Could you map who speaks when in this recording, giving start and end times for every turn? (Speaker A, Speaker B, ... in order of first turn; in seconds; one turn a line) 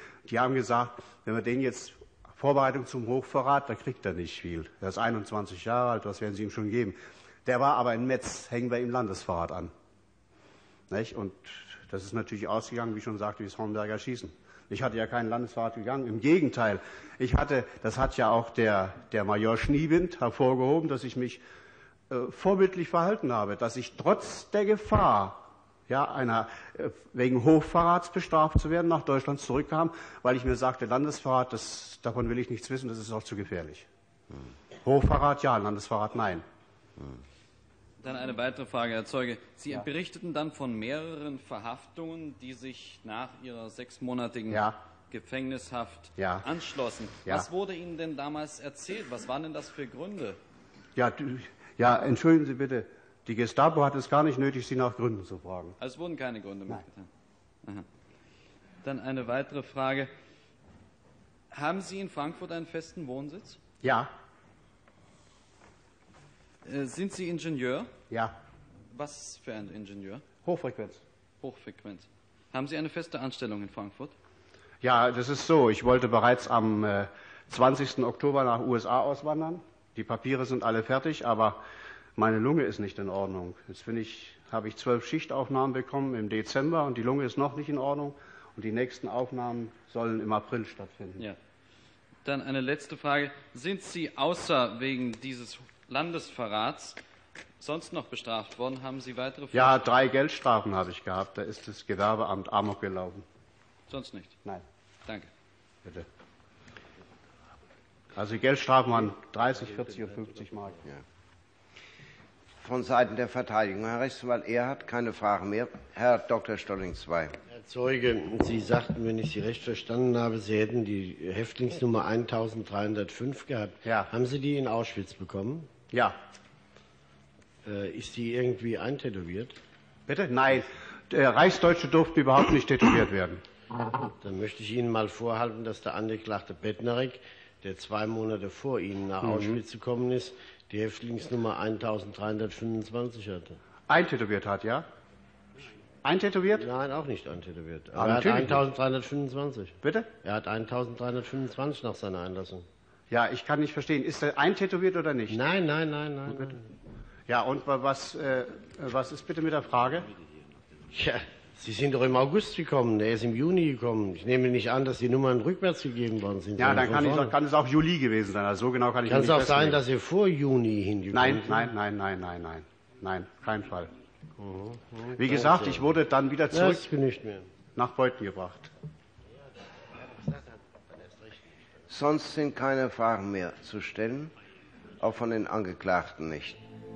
Speaker A: 0.3-9.7
Speaker A: 10.9-21.4
Speaker A: 22.1-33.9
Speaker A: 34.8-36.5
Speaker B: 38.0-50.4
Speaker A: 44.5-44.8
Speaker A: 46.2-46.5
Speaker A: 51.0-55.8
Speaker B: 55.8-57.1
Speaker B: 58.8-60.1
Speaker B: 61.5-63.6
Speaker A: 63.8-64.1
Speaker B: 66.7-67.9
Speaker A: 68.1-68.4
Speaker B: 68.9-70.2
Speaker A: 70.5-71.0
Speaker B: 71.4-74.2
Speaker A: 74.8-81.6
Speaker A: 82.2-91.3
Speaker B: 92.2-97.0
Speaker B: 97.6-99.9
Speaker A: 99.5-103.2
Speaker B: 103.9-104.4
Speaker A: 108.2-110.8
Speaker C: 112.6-117.4
Speaker D: 117.5-125.7
Speaker A: 123.8-124.1
Speaker A: 125.9-126.2
Speaker D: 127.7-129.6
Speaker A: 130.1-133.4
Speaker D: 134.2-143.6
Speaker A: 139.2-139.6
Speaker A: 143.9-144.9
Speaker A: 146.0-146.7
Speaker D: 146.6-152.7
Speaker A: 147.9-148.6
Speaker A: 149.8-150.1
Speaker A: 153.1-155.4
Speaker D: 155.3-156.7
Speaker A: 157.3-160.1
Speaker D: 160.9-167.3
Speaker A: 166.6-169.8
Speaker D: 169.1-171.7
Speaker A: 171.1-173.9
Speaker D: 174.4-176.0
Speaker A: 175.2-176.8
Speaker D: 176.5-177.5
Speaker A: 177.8-178.7
Speaker D: 179.4-181.8
Speaker C: 181.9-184.3
Speaker C: 185.0-186.6